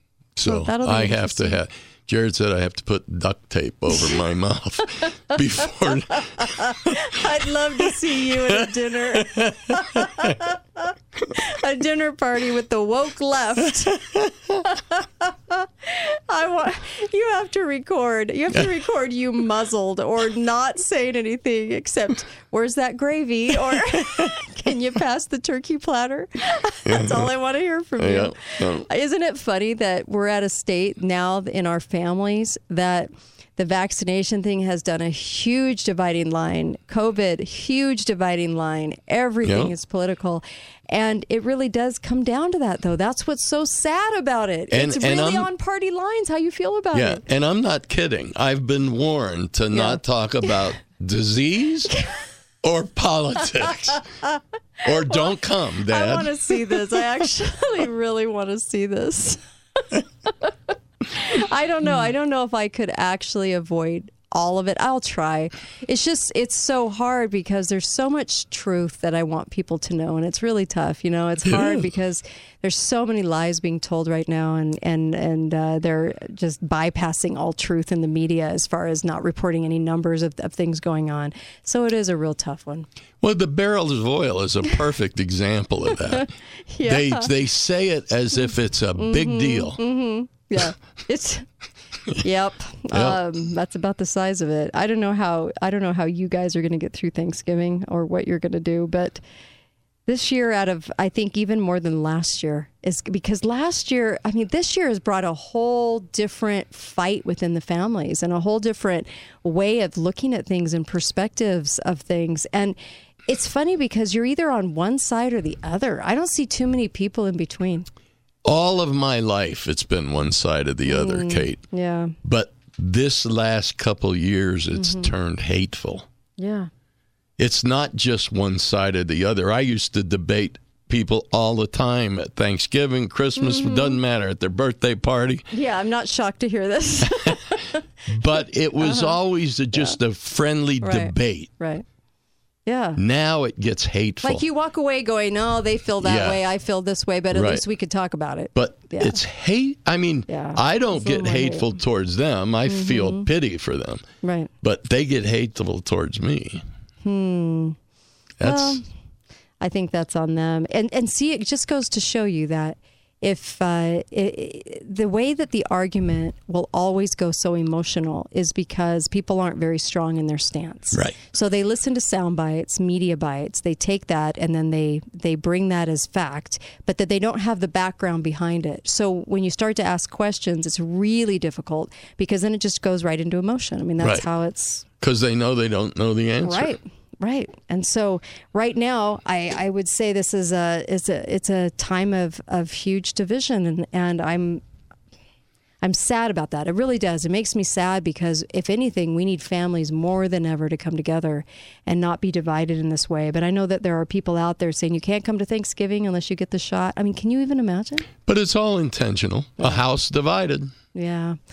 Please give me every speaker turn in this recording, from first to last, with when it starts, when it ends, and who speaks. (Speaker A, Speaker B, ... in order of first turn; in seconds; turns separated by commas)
Speaker A: 0.3-7.0, Speaker B: 0.4-1.6, Speaker B: 6.6-14.0, Speaker A: 7.8-10.4, Speaker A: 14.1-14.6, Speaker B: 14.7-47.2, Speaker A: 26.9-27.3, Speaker A: 28.0-28.9, Speaker A: 39.4-39.7, Speaker A: 44.7-45.5, Speaker A: 46.9-51.9, Speaker B: 49.7-50.5, Speaker A: 52.6-54.0, Speaker A: 54.8-57.1, Speaker B: 54.9-55.2, Speaker B: 55.9-82.9, Speaker A: 71.4-71.9, Speaker A: 83.2-86.3, Speaker B: 86.1-87.3, Speaker A: 86.8-89.8, Speaker B: 89.0-91.5, Speaker B: 92.2-99.2, Speaker A: 92.9-93.2, Speaker B: 100.1-117.9, Speaker A: 118.4-121.6, Speaker B: 120.9-122.1, Speaker A: 122.2-126.0, Speaker B: 124.8-125.1, Speaker B: 126.4-126.7, Speaker A: 127.4-135.5, Speaker B: 133.4-134.0, Speaker B: 135.5-137.8, Speaker A: 138.1-141.5, Speaker B: 138.8-139.2, Speaker B: 140.8-141.8, Speaker B: 142.7-143.0, Speaker A: 143.0-144.4, Speaker B: 144.2-149.2, Speaker A: 146.0-146.4, Speaker A: 147.3-147.6, Speaker A: 148.5-154.0, Speaker B: 150.3-151.7, Speaker B: 152.7-153.3, Speaker B: 154.2-154.5, Speaker A: 154.6-156.6, Speaker B: 157.0-157.8, Speaker A: 158.4-158.8, Speaker B: 158.4-158.9, Speaker B: 159.6-184.9, Speaker A: 170.9-171.2, Speaker A: 184.0-184.2, Speaker A: 185.0-186.8, Speaker B: 186.4-194.6, Speaker B: 195.8-208.1, Speaker A: 208.2-210.7, Speaker B: 210.9-211.4